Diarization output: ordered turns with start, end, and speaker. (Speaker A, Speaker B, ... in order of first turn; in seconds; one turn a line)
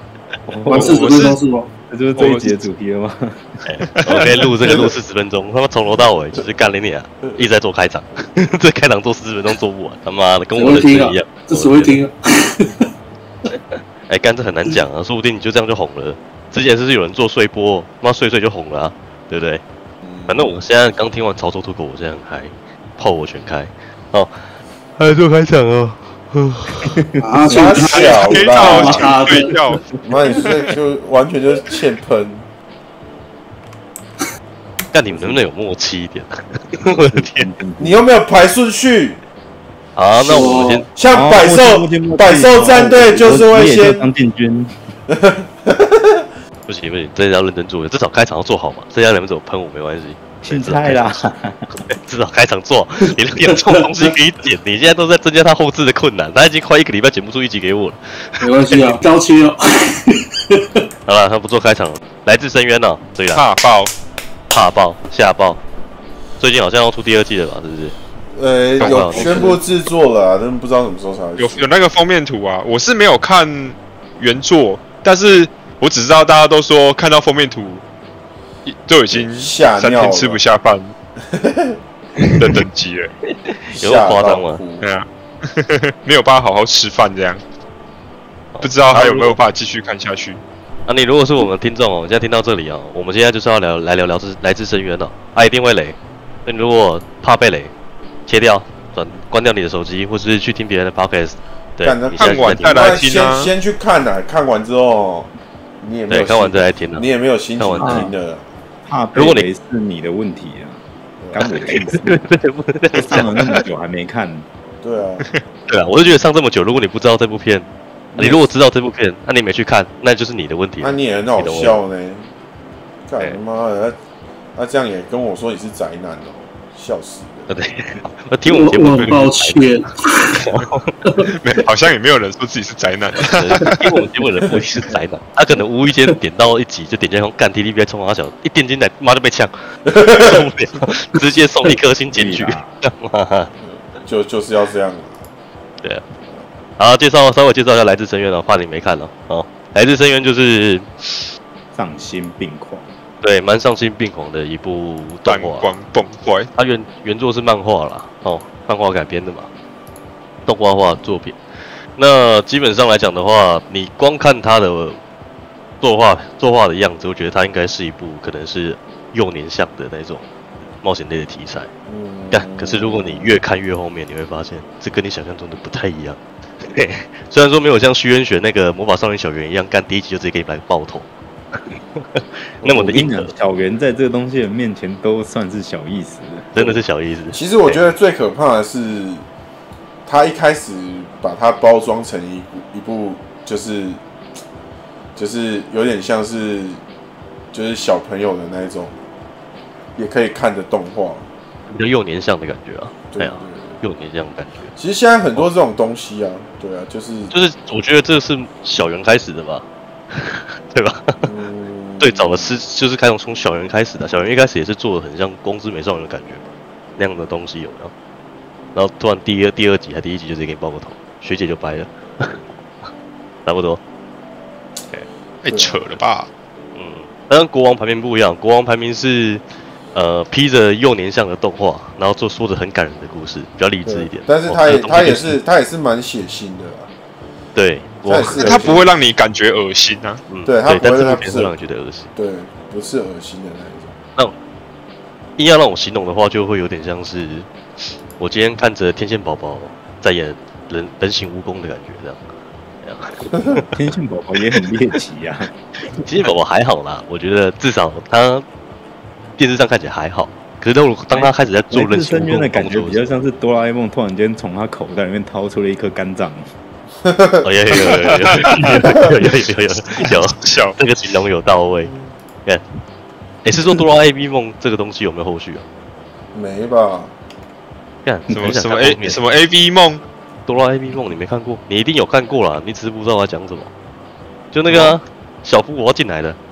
Speaker A: 0.5-1.0
Speaker B: 0.7-1.7
Speaker C: 0.7-1.4
Speaker A: 1.9-3.8
Speaker C: 2.1-2.6
Speaker D: 3.6-12.0
Speaker B: 10.5-12.9
Speaker D: 13.5-19.6
Speaker E: 20.0-20.5
Speaker D: 20.3-26.9
Speaker A: 26.8-27.7
Speaker B: 27.2-29.6
Speaker E: 27.5-29.2
Speaker C: 27.9-29.8
Speaker E: 30.0-32.5
Speaker D: 34.9-37.5
Speaker A: 37.0-38.0
Speaker E: 37.8-39.2
Speaker D: 40.0-40.9
Speaker B: 40.2-40.9
Speaker E: 40.9-44.1
Speaker A: 41.1-44.7
Speaker E: 45.1-46.2
Speaker D: 46.7-51.2
Speaker A: 50.4-51.8
Speaker D: 51.9-59.0
Speaker B: 53.5-53.8
Speaker B: 58.4-60.8
Speaker D: 61.0-63.4
Speaker C: 63.3-63.9
Speaker D: 64.5-65.6
Speaker D: 66.4-68.0
Speaker E: 68.3-71.7
Speaker C: 68.8-69.4
Speaker D: 68.8-69.6
Speaker C: 71.4-77.8
Speaker C: 78.6-80.9
Speaker E: 79.1-80.4
Speaker E: 81.3-81.8
Speaker C: 82.3-83.1
Speaker D: 83.3-84.6
Speaker E: 83.7-84.8
Speaker C: 84.8-87.4
Speaker D: 88.5-89.4
Speaker C: 88.6-90.4
Speaker D: 90.9-97.7
Speaker D: 98.3-103.0
Speaker E: 101.8-108.5
Speaker C: 102.2-103.5
Speaker D: 106.1-107.1
Speaker D: 107.6-108.1
Speaker B: 107.8-108.1
Speaker A: 108.8-110.8
Speaker D: 109.1-109.5
Speaker E: 111.2-111.5
Speaker A: 111.3-112.3
Speaker D: 111.4-113.3
Speaker A: 112.9-114.5
Speaker E: 114.8-115.3
Speaker D: 115.7-121.8
Speaker E: 118.1-118.4
Speaker E: 120.8-122.3
Speaker E: 123.1-124.0
Speaker E: 124.5-127.6
Speaker D: 127.5-129.7
Speaker B: 128.4-130.4
Speaker C: 128.9-129.2
Speaker D: 130.3-131.0
Speaker B: 131.0-131.3
Speaker C: 131.4-133.8
Speaker D: 133.2-139.5
Speaker E: 139.9-140.5
Speaker D: 140.1-143.5
Speaker A: 142.1-142.8
Speaker E: 143.6-145.2
Speaker D: 146.8-151.2
Speaker A: 151.7-152.9
Speaker D: 153.2-155.7
Speaker C: 155.2-156.5
Speaker D: 156.5-159.5
Speaker D: 160.4-161.4
Speaker D: 161.9-165.0
Speaker D: 165.8-170.2
Speaker D: 170.8-171.7
Speaker E: 171.9-173.3
Speaker D: 172.3-183.3
Speaker A: 182.6-186.7
Speaker D: 186.5-187.8
Speaker E: 187.3-189.2
Speaker E: 190.0-194.0
Speaker E: 195.1-196.8
Speaker E: 197.5-199.0
Speaker E: 199.9-201.2
Speaker D: 201.7-204.7
Speaker E: 203.1-203.8
Speaker E: 204.8-207.3
Speaker D: 207.3-211.2
Speaker E: 211.2-212.6
Speaker D: 212.0-217.9
Speaker D: 218.7-222.4
Speaker D: 223.4-223.8
Speaker C: 225.4-226.3
Speaker E: 225.5-225.8
Speaker D: 226.7-235.4
Speaker E: 233.8-236.9
Speaker D: 237.5-238.7
Speaker E: 238.1-238.9
Speaker C: 238.3-240.2
Speaker D: 240.3-242.1
Speaker E: 240.4-241.5
Speaker E: 242.1-243.9
Speaker D: 245.4-247.5
Speaker D: 248.2-252.2
Speaker D: 252.8-253.7
Speaker A: 253.6-255.5
Speaker D: 256.0-258.4
Speaker D: 259.4-263.0
Speaker A: 261.1-266.4
Speaker E: 267.0-267.5
Speaker D: 267.4-271.9
Speaker C: 268.4-268.8
Speaker C: 270.0-270.8
Speaker D: 273.4-275.6
Speaker E: 276.3-277.1
Speaker D: 278.0-279.2
Speaker C: 278.3-280.0
Speaker D: 280.5-283.7
Speaker D: 284.5-286.4
Speaker C: 284.7-284.9